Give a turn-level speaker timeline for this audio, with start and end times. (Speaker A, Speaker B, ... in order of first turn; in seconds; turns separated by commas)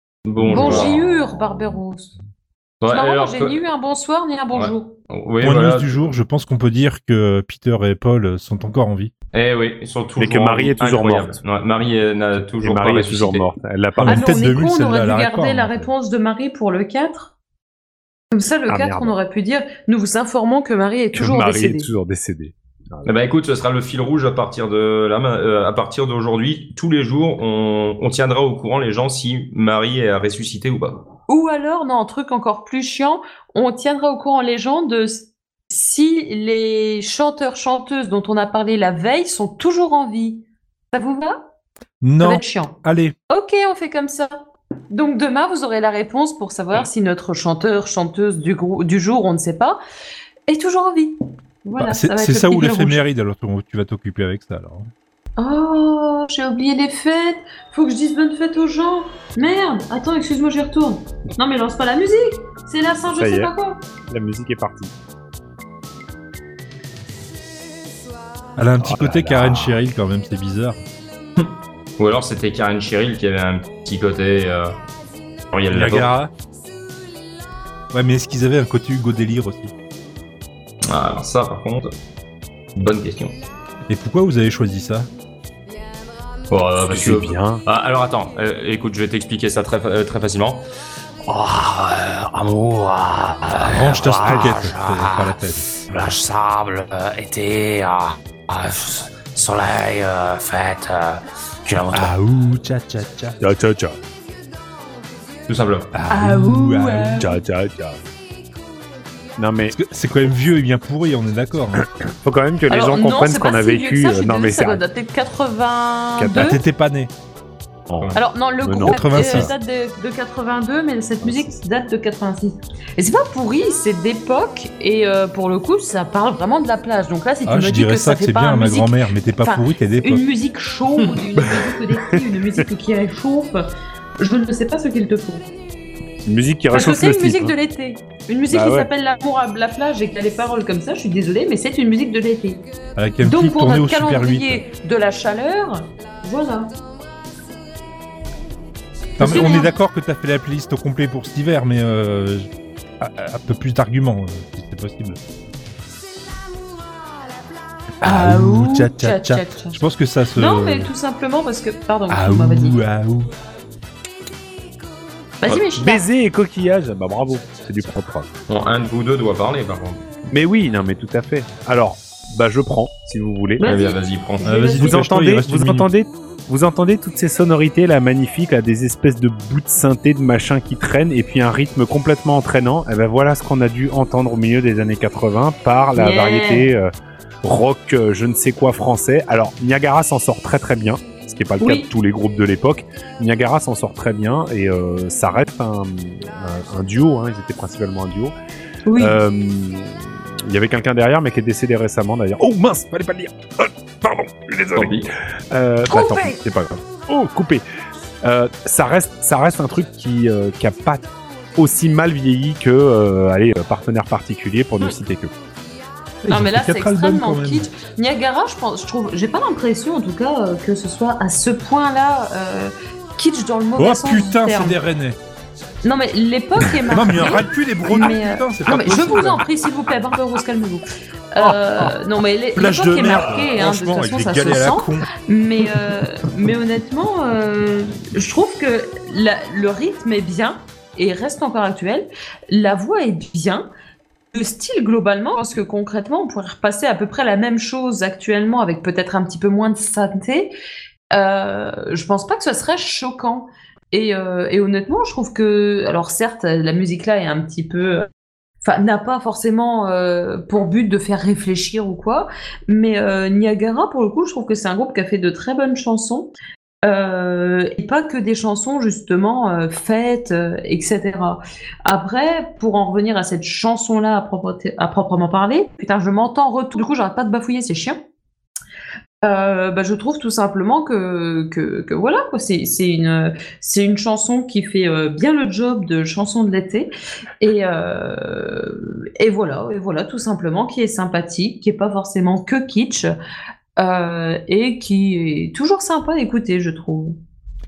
Speaker A: 0.2-1.0, Speaker B: 0.4-2.1, Speaker A: 2.8-3.6, Speaker B: 2.9-4.9, Speaker A: 4.5-6.1, Speaker C: 5.4-9.1, Speaker A: 9.3-13.5, Speaker D: 10.2-11.4, Speaker D: 12.6-14.3, Speaker C: 14.0-15.9, Speaker B: 14.1-17.3, Speaker B: 18.3-21.9, Speaker D: 18.7-19.1, Speaker D: 21.1-23.1, Speaker A: 23.0-31.1, Speaker B: 31.3-41.4, Speaker C: 42.0-43.1, Speaker B: 42.2-42.8, Speaker B: 43.3-44.3, Speaker B: 44.9-49.8, Speaker B: 50.5-53.0, Speaker C: 51.8-54.9, Speaker B: 55.4-63.8, Speaker D: 63.1-63.5, Speaker D: 64.1-64.9, Speaker C: 68.6-70.8, Speaker A: 68.9-69.8, Speaker A: 71.4-74.8, Speaker A: 75.5-76.1, Speaker C: 75.7-76.3, Speaker C: 77.9-79.7, Speaker A: 80.9-81.9, Speaker A: 82.8-83.3, Speaker C: 83.9-85.1, Speaker A: 86.5-90.6, Speaker D: 86.8-87.6, Speaker E: 91.2-102.1, Speaker C: 93.6-95.7, Speaker D: 94.2-94.5, Speaker C: 101.9-103.4, Speaker D: 103.4-104.0, Speaker A: 105.5-105.9, Speaker C: 105.9-107.3, Speaker B: 106.1-107.3, Speaker D: 107.2-108.0, Speaker D: 109.4-109.8, Speaker C: 109.6-111.8, Speaker D: 112.0-114.8, Speaker B: 112.7-116.6, Speaker D: 116.2-116.5, Speaker C: 116.3-117.1, Speaker D: 117.9-119.5, Speaker B: 118.1-133.6, Speaker C: 118.8-119.5, Speaker D: 121.2-121.5, Speaker C: 127.4-130.2, Speaker D: 131.4-132.5, Speaker B: 134.2-135.4, Speaker D: 136.2-137.5, Speaker B: 136.7-142.6, Speaker D: 138.5-138.9, Speaker C: 142.9-144.6, Speaker B: 143.2-146.7, Speaker C: 149.2-155.2, Speaker B: 149.2-149.7, Speaker C: 158.0-160.9, Speaker B: 158.0-159.8, Speaker B: 160.3-162.8, Speaker C: 162.1-163.3, Speaker B: 165.4-166.0, Speaker D: 165.5-168.3, Speaker A: 168.5-170.0, Speaker D: 170.3-173.6, Speaker B: 173.6-175.1, Speaker A: 173.6-174.6, Speaker C: 174.4-175.9, Speaker D: 174.7-186.9, Speaker B: 185.9-186.7, Speaker D: 187.4-198.3, Speaker B: 191.6-191.9, Speaker B: 198.8-199.2, Speaker D: 199.0-207.6, Speaker A: 204.7-205.1, Speaker B: 205.9-206.4, Speaker D: 208.2-215.3, Speaker C: 216.2-217.7, Speaker B: 216.3-224.8, Speaker C: 223.8-225.2, Speaker B: 225.8-243.7, Speaker C: 226.9-229.4, Speaker C: 231.4-231.9, Speaker C: 232.5-235.1, Speaker B: 244.3-250.5, Speaker B: 251.1-258.1, Speaker B: 258.6-266.3, Speaker B: 266.8-278.0, Speaker B: 279.2-293.1, Speaker B: 293.8-297.2